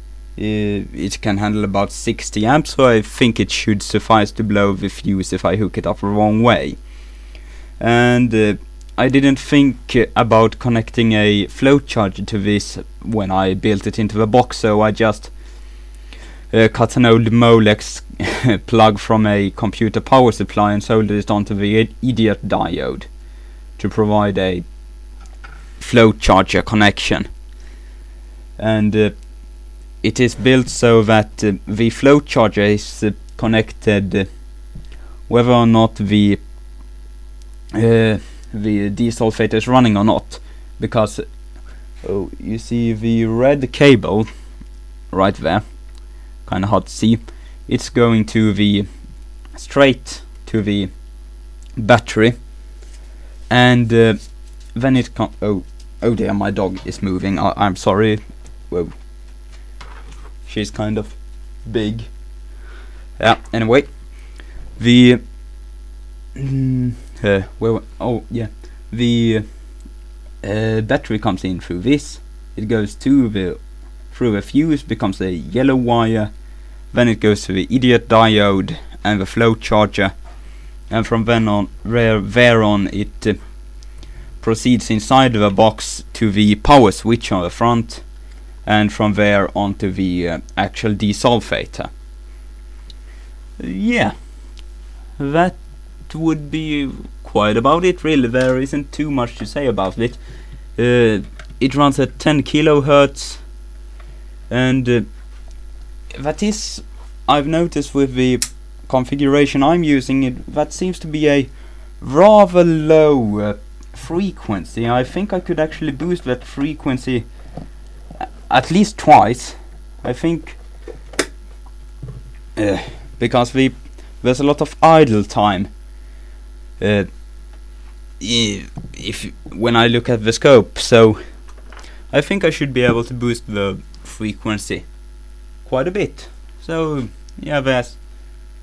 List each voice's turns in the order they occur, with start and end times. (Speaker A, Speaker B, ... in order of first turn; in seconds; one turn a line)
Speaker A: 0.3-6.8
Speaker A: 7.8-15.3
Speaker A: 16.5-23.1
Speaker A: 23.8-24.6
Speaker A: 25.8-27.3
Speaker A: 28.6-29.1
Speaker A: 30.0-34.3
Speaker A: 35.3-36.4
Speaker A: 37.7-41.2
Speaker A: 42.0-44.3
Speaker A: 45.1-45.6
Speaker A: 46.4-48.9
Speaker A: 49.5-50.9
Speaker A: 51.8-52.4
Speaker A: 53.5-59.0
Speaker A: 60.5-62.1
Speaker A: 63.2-63.9
Speaker A: 64.8-65.2
Speaker A: 66.3-69.5
Speaker A: 70.4-76.3
Speaker A: 76.9-80.1
Speaker A: 80.9-83.4
Speaker A: 84.4-88.0
Speaker A: 88.6-91.9
Speaker A: 93.6-94.1
Speaker A: 95.2-100.2
Speaker A: 100.8-103.4
Speaker A: 104.5-105.0
Speaker A: 106.1-117.3
Speaker A: 118.2-120.6
Speaker A: 122.5-125.7
Speaker A: 126.8-127.1
Speaker A: 128.2-131.2
Speaker A: 132.1-134.9
Speaker A: 135.6-138.0